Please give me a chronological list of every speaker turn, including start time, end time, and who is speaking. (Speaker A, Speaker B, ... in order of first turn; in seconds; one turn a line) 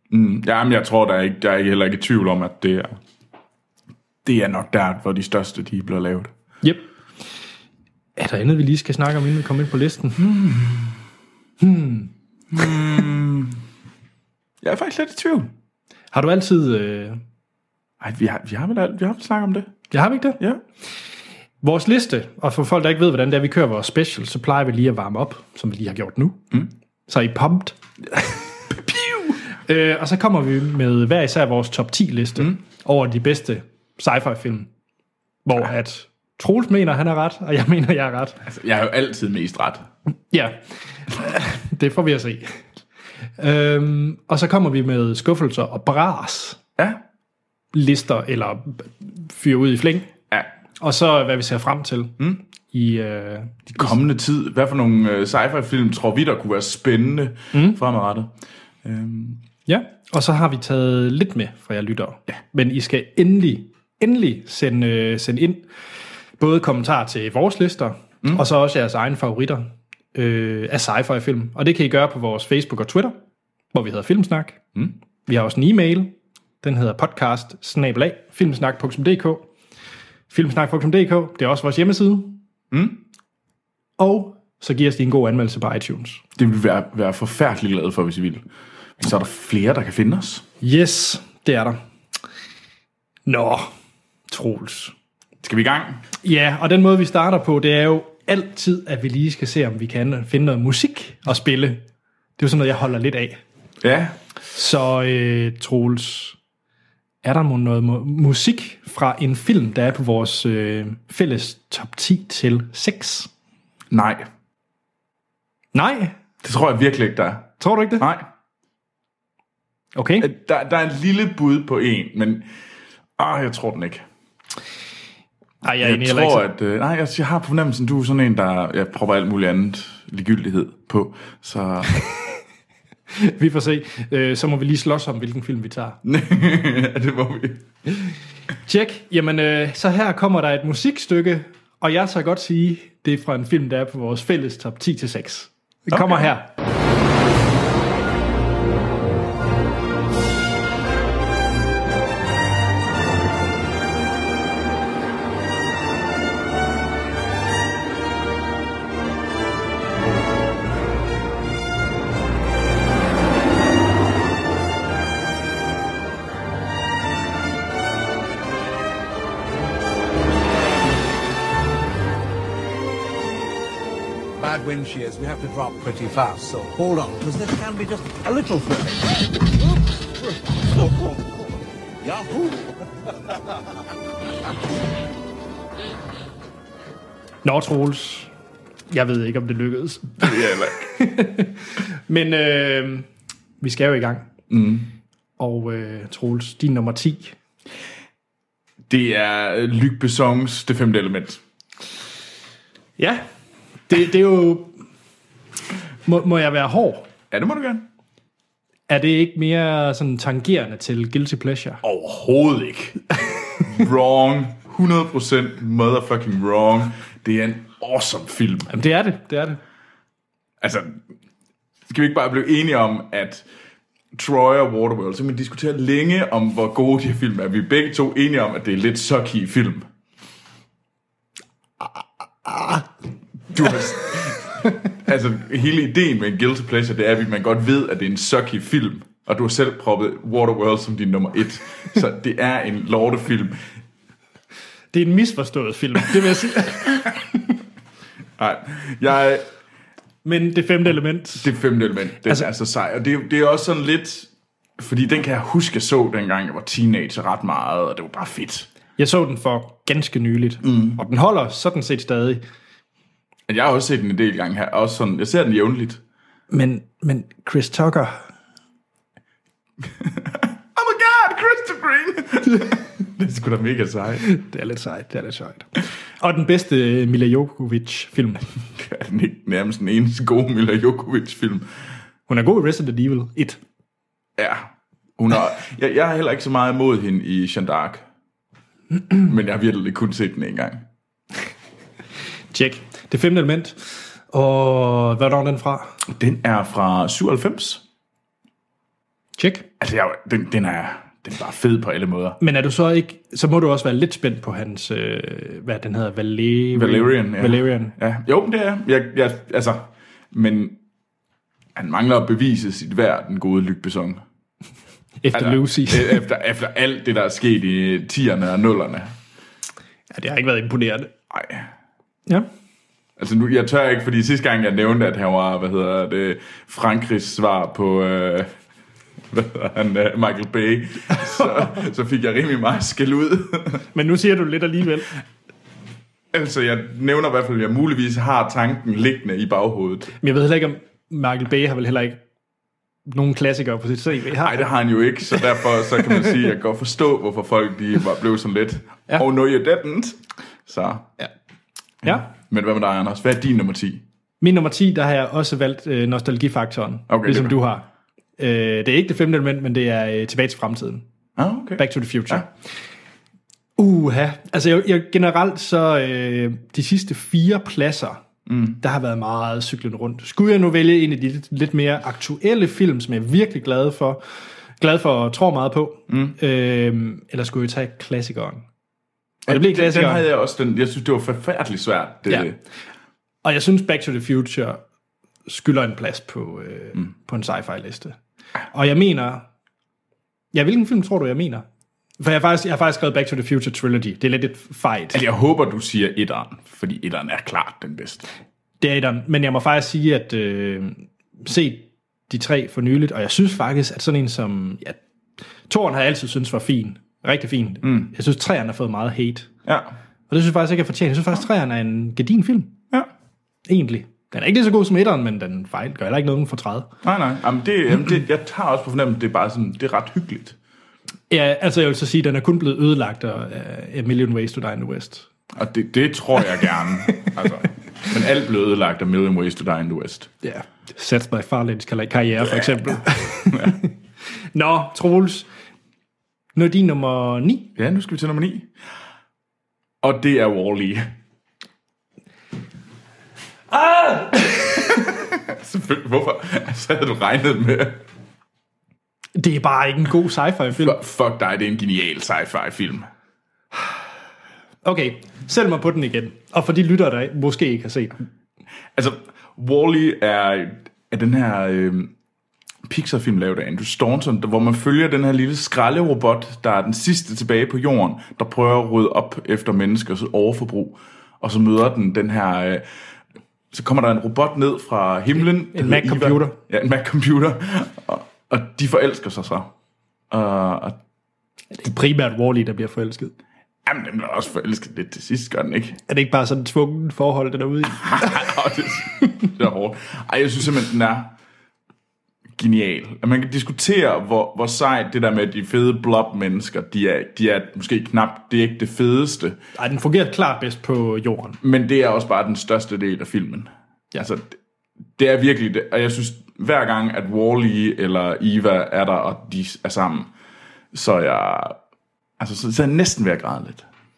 Speaker A: 0.1-3.0
Speaker A: 4.2-6.3
Speaker B: 8.2-10.2
Speaker A: 10.2-11.0
Speaker B: 11.6-12.1
Speaker A: 12.5-13.6
Speaker A: 14.6-15.5
Speaker B: 16.1-17.2
Speaker A: 18.0-19.7
Speaker B: 19.9-20.4
Speaker B: 21.6-26.5
Speaker B: 27.1-34.7
Speaker B: 35.4-38.4
Speaker A: 38.4-39.9
Speaker B: 40.3-42.6
Speaker B: 43.4-46.6
Speaker B: 47.7-50.1
Speaker B: 50.8-52.2
Speaker B: 52.7-53.9
Speaker A: 53.7-58.3
Speaker B: 57.5-57.8
Speaker A: 58.8-59.4
Speaker B: 59.7-65.7
Speaker B: 66.4-73.1
Speaker B: 73.7-74.6
Speaker B: 75.2-79.5
Speaker B: 80.3-82.4
Speaker A: 82.7-83.0
Speaker B: 84.0-86.2
Speaker A: 86.4-88.4
Speaker A: 89.0-90.4
Speaker B: 90.6-91.8
Speaker B: 93.2-93.7
Speaker B: 94.3-94.9
Speaker A: 95.4-96.0
Speaker B: 96.2-101.8
Speaker B: 102.4-103.4
Speaker A: 103.8-104.2
Speaker B: 104.5-106.4
Speaker B: 107.2-113.3
Speaker A: 113.9-114.3
Speaker B: 115.7-116.2
Speaker A: 116.4-118.2
Speaker B: 117.6-118.0
Speaker B: 120.0-120.3
Speaker A: 120.2-122.5
Speaker A: 123.2-124.0
Speaker B: 125.6-126.5
Speaker A: 125.8-131.9
Speaker B: 133.1-136.0
Speaker A: 136.0-137.7
Speaker B: 138.7-146.5
Speaker A: 145.9-146.3
Speaker C: 174.4-179.1
Speaker C: 180.8-181.1
Speaker C: 182.0-182.6
Speaker B: 187.4-188.3
Speaker B: 188.9-193.1
Speaker A: 190.2-190.9
Speaker B: 193.6-194.3
Speaker A: 194.5-194.9
Speaker B: 195.4-197.4
Speaker A: 198.9-201.4
Speaker B: 203.0-203.2
Speaker B: 203.9-204.7
Speaker B: 206.1-207.0
Speaker A: 207.3-207.9
Speaker B: 208.9-211.8
Speaker A: 211.8-213.0
Speaker A: 213.6-218.7
Speaker B: 218.7-219.6
Speaker A: 220.6-221.0
Speaker A: 221.9-223.4
Speaker A: 224.1-229.9
Speaker B: 232.4-232.9
Speaker A: 233.5-243.7
Speaker B: 244.9-247.2
Speaker A: 248.4-249.5
Speaker B: 250.2-251.5
Speaker A: 251.4-258.7
Speaker B: 259.0-262.4
Speaker A: 260.6-261.0
Speaker A: 263.5-266.0
Speaker B: 266.5-268.2
Speaker A: 270.0-274.3
Speaker B: 274.2-278.4
Speaker A: 278.7-281.7
Speaker B: 282.3-283.6
Speaker A: 284.4-288.0
Speaker A: 289.2-290.9
Speaker B: 292.5-293.8
Speaker B: 294.3-295.9
Speaker A: 296.1-297.8
Speaker B: 299.4-299.7
Speaker A: 299.8-302.4
Speaker B: 302.4-308.0
Speaker A: 306.7-310.8
Speaker A: 311.8-314.2
Speaker B: 315.2-316.2
Speaker A: 315.3-319.1
Speaker B: 320.1-321.1
Speaker A: 321.3-321.7
Speaker A: 323.2-328.5
Speaker A: 329.3-333.8
Speaker B: 333.9-335.1
Speaker A: 336.3-340.1
Speaker B: 340.2-342.2
Speaker B: 343.1-344.7
Speaker A: 344.4-351.1
Speaker A: 352.0-354.0
Speaker B: 354.4-357.9
Speaker A: 357.1-357.6
Speaker B: 358.4-361.0
Speaker A: 361.4-362.5
Speaker B: 361.8-362.5
Speaker B: 363.8-368.2
Speaker A: 368.5-368.8
Speaker B: 368.8-374.2
Speaker B: 374.8-378.6
Speaker A: 376.1-376.4
Speaker A: 379.5-382.6
Speaker B: 379.5-380.2
Speaker B: 383.4-384.8
Speaker B: 385.5-388.2
Speaker B: 388.7-389.5
Speaker B: 390.5-391.6
Speaker B: 392.2-395.2
Speaker A: 395.1-398.2
Speaker B: 398.8-405.0
Speaker B: 405.7-409.5
Speaker A: 407.8-408.1
Speaker A: 409.6-409.9
Speaker B: 410.3-412.8
Speaker B: 413.6-416.9
Speaker A: 417.0-420.6
Speaker B: 421.3-425.3
Speaker A: 425.5-430.3
Speaker B: 430.4-433.9
Speaker B: 434.5-435.5
Speaker B: 436.5-437.7
Speaker A: 437.8-438.7
Speaker A: 440.0-441.1
Speaker B: 443.7-445.1
Speaker A: 444.9-448.0
Speaker B: 449.4-451.0
Speaker A: 450.8-453.1
Speaker B: 454.8-458.2
Speaker A: 458.9-462.1
Speaker A: 462.9-472.9
Speaker A: 473.7-479.7
Speaker B: 475.6-476.6
Speaker A: 480.3-481.0
Speaker B: 481.7-483.3
Speaker A: 483.9-486.0
Speaker B: 486.1-488.6
Speaker A: 488.0-491.3
Speaker A: 492.6-499.6
Speaker B: 499.8-501.6
Speaker A: 501.6-504.6
Speaker A: 505.2-510.3
Speaker A: 510.9-511.8
Speaker A: 512.4-513.9